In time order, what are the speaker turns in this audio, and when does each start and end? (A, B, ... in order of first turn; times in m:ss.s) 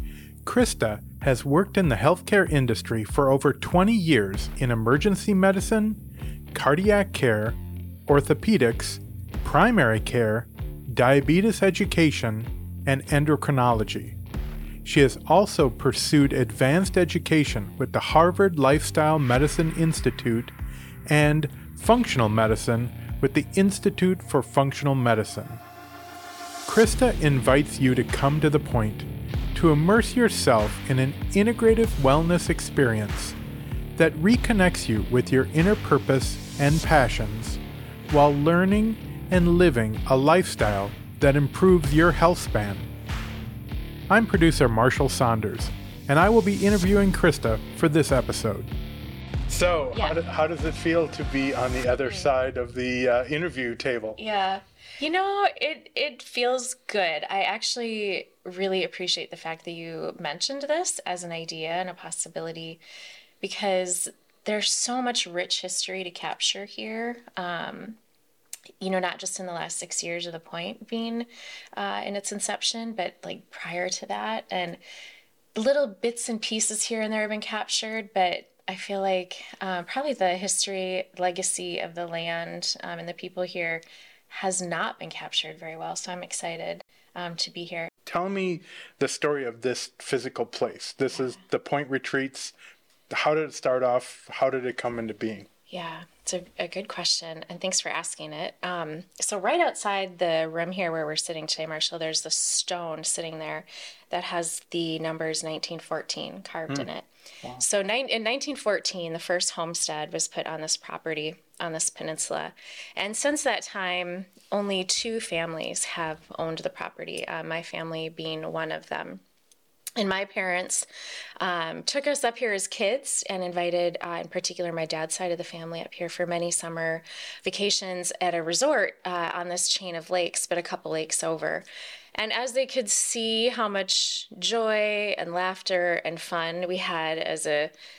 0:00.4-0:06.0 A
0:06.5-0:14.2 A
0:14.8-0:20.5 A
0:21.1-0:25.6 A
0:26.6-0:33.4 A
0:34.0-0:42.9 A
0:44.1-0:48.7 A
0:49.5-0:54.2 A
0:54.2-1:02.8 B
1:03.4-1:08.0 B
1:08.8-1:14.8 B
1:15.6-1:27.9 B
1:28.0-1:32.5 A
1:31.1-1:31.4 B
1:33.1-1:35.5 A
1:35.7-1:59.2 B
2:00.0-2:00.8 B
2:01.4-2:11.6 B
2:12.2-2:17.7 B